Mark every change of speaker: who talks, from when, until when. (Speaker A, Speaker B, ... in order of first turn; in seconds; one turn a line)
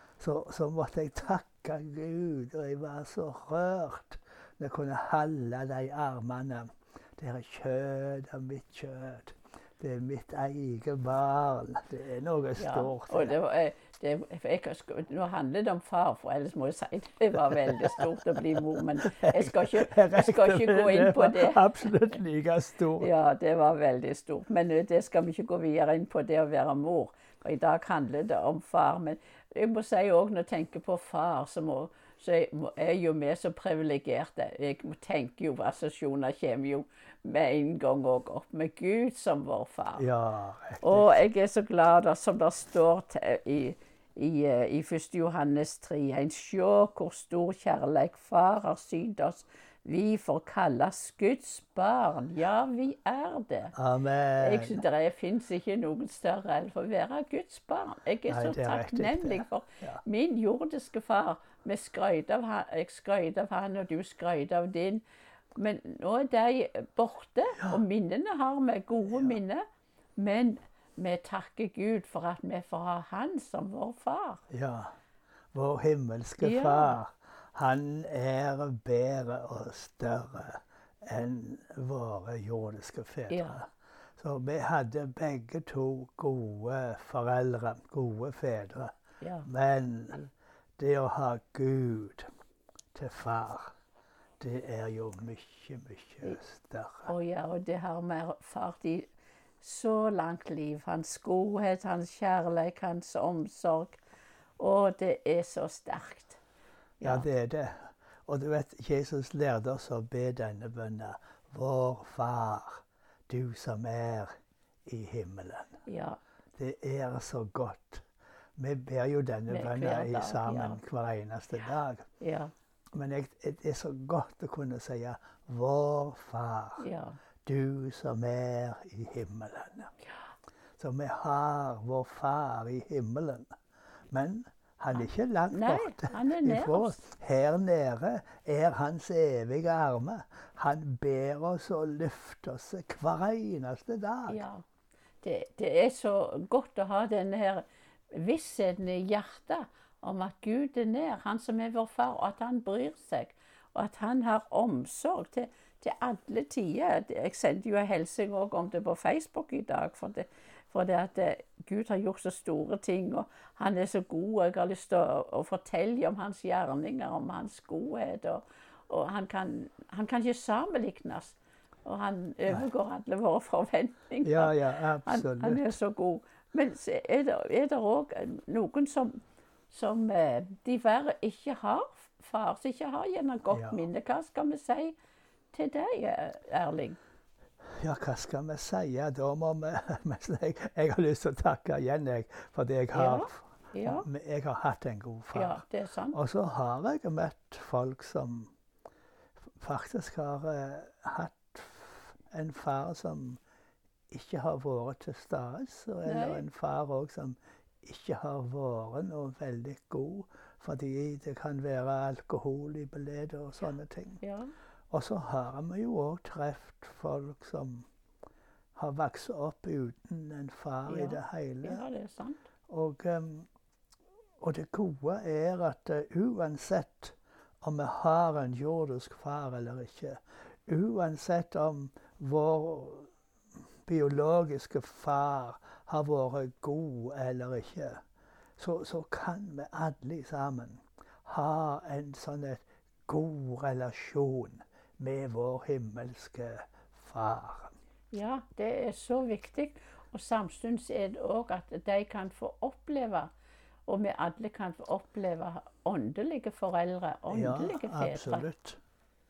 Speaker A: 0.2-13.4
Speaker B: 12.6-21.7
Speaker A: 17.4-23.1
Speaker B: 23.0-40.1
Speaker A: 40.0-41.2
Speaker B: 40.8-53.8
Speaker A: 53.7-54.8
Speaker B: 54.4-65.0
Speaker A: 58.3-60.0
Speaker B: 65.5-69.7
Speaker A: 69.1-69.4
Speaker B: 70.2-74.4
Speaker A: 74.5-74.9
Speaker A: 75.5-88.9
Speaker B: 76.4-77.0
Speaker B: 83.3-83.6
Speaker B: 89.2-89.5
Speaker A: 89.5-92.3
Speaker A: 92.9-93.7
Speaker A: 94.4-97.1
Speaker B: 97.1-99.1
Speaker B: 99.6-104.0
Speaker B: 104.6-106.4
Speaker B: 107.0-107.3
Speaker A: 107.0-114.3
Speaker A: 114.9-115.8
Speaker B: 115.9-116.2
Speaker A: 116.6-118.0
Speaker A: 118.6-122.0
Speaker B: 119.5-120.8
Speaker B: 122.2-122.5
Speaker A: 122.9-126.8
Speaker B: 126.8-127.2
Speaker A: 127.5-129.9
Speaker A: 130.8-133.5
Speaker A: 134.1-144.4
Speaker B: 134.9-137.0
Speaker B: 144.3-144.6
Speaker B: 145.2-179.2
Speaker A: 174.2-175.8
Speaker B: 179.7-184.9
Speaker A: 183.5-183.8
Speaker B: 185.5-187.0
Speaker A: 187.8-195.6
Speaker B: 192.9-194.1
Speaker B: 195.3-196.2
Speaker A: 196.1-198.5
Speaker A: 199.6-203.4
Speaker A: 204.1-214.2
Speaker B: 206.1-206.4
Speaker B: 214.2-214.5
Speaker A: 214.9-217.9
Speaker A: 218.8-221.9
Speaker B: 220.9-222.4
Speaker A: 222.7-223.5
Speaker A: 224.4-233.1
Speaker A: 233.9-238.0
Speaker A: 238.6-247.7
Speaker B: 248.1-253.3
Speaker B: 253.9-258.5
Speaker A: 257.3-258.8